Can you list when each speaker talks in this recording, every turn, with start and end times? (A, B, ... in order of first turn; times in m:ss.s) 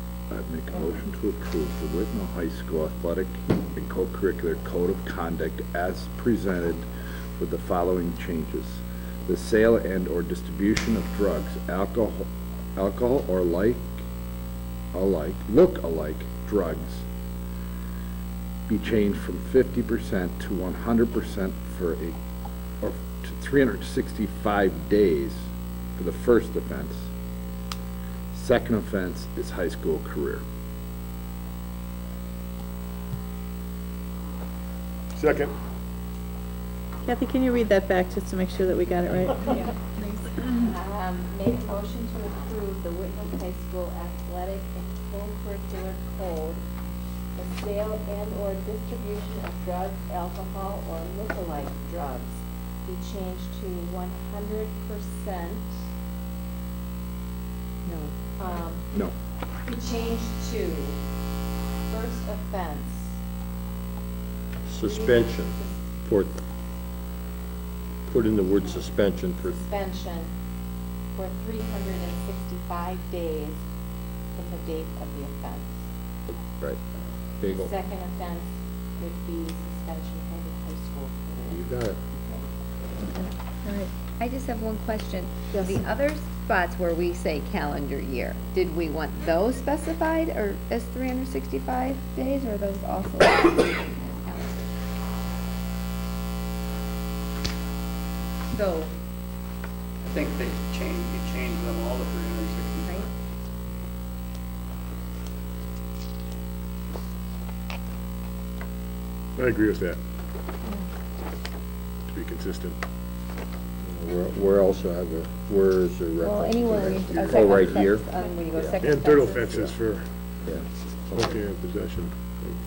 0:00.3-0:06.8 A
0:07.4-0:14.0 A
0:14.9-0:17.0 A
0:18.7-0:22.2 A
0:22.8-0:27.1 A
0:28.3-0:30.4 A
0:35.2-0:35.5 B
0:37.0-0:39.6 C
0:40.6-0:46.6 D
0:47.4-0:55.8 D
0:58.3-0:58.9 D
0:59.6-1:01.0 D
1:01.9-1:03.2 D
1:04.6-1:06.4 E
1:04.8-1:05.8 D
1:08.1-1:09.6 E
1:08.3-1:10.3 D
1:11.1-1:13.6 D
1:14.3-1:15.9 D
1:16.3-1:16.8 E
1:17.4-1:17.8 E
1:17.4-1:21.6 D
1:21.5-1:22.0 E
1:23.6-1:23.9 C
1:24.2-1:34.7 F
1:38.5-1:38.9 F
1:40.0-1:43.0 G
1:49.4-1:50.0 B
1:52.1-1:52.8 B
1:53.8-1:58.8 E
1:56.2-1:59.8 F
1:58.8-2:00.0 B
2:01.1-2:01.4 E
2:01.1-2:02.2 B